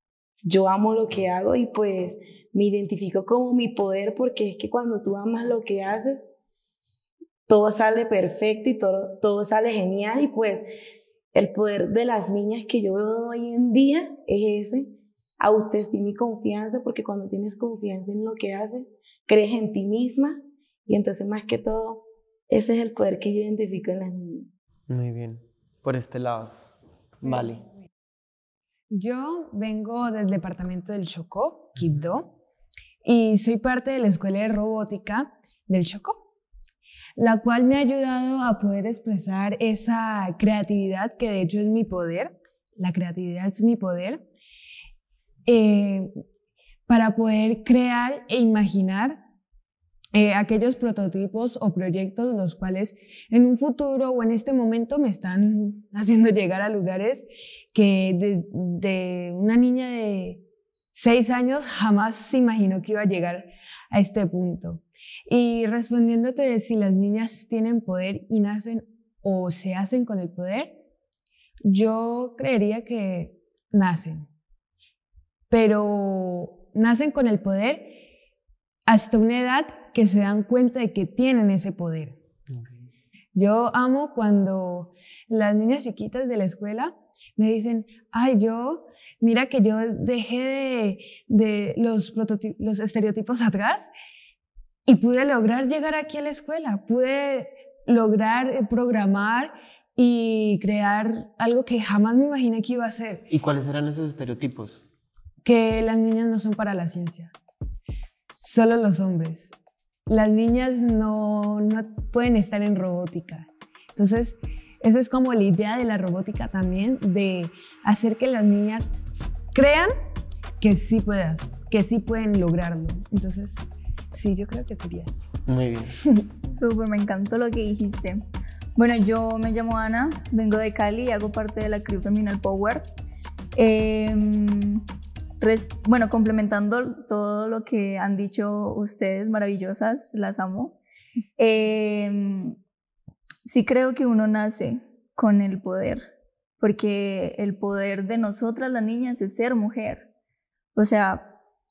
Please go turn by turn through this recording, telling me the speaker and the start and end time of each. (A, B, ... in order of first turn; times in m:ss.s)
0:00.5-0:06.2 A
0:07.5-0:10.6 A
0:11.4-0:14.8 A
0:15.4-0:20.3 A
0:20.9-0:22.0 A
0:22.5-0:24.5 A
0:24.9-0:26.5 B
0:27.2-0:27.6 B
0:28.9-0:32.4 C
0:33.0-0:36.2 C
0:37.2-0:44.2 C
0:45.4-0:46.1 C
0:46.9-0:49.2 C
0:50.1-1:00.4 C
1:00.9-1:10.8 C
1:11.7-1:14.3 C
1:15.5-1:18.0 C
1:18.9-1:22.2 C
1:23.3-1:33.9 C
1:34.8-1:43.3 C
1:43.3-1:44.8 B
1:45.4-1:47.3 C
1:48.3-1:49.5 C
1:50.1-1:59.0 C
1:59.5-1:59.9 C
2:00.6-2:03.6 C
2:04.1-2:05.2 C
2:05.5-2:05.9 B
2:06.5-2:08.2 D
2:08.8-2:12.9 D
2:13.6-2:14.8 D
2:15.4-2:20.8 D
2:21.4-2:22.6 D
2:23.4-2:26.0 D
2:26.6-2:30.1 D
2:30.7-2:31.3 D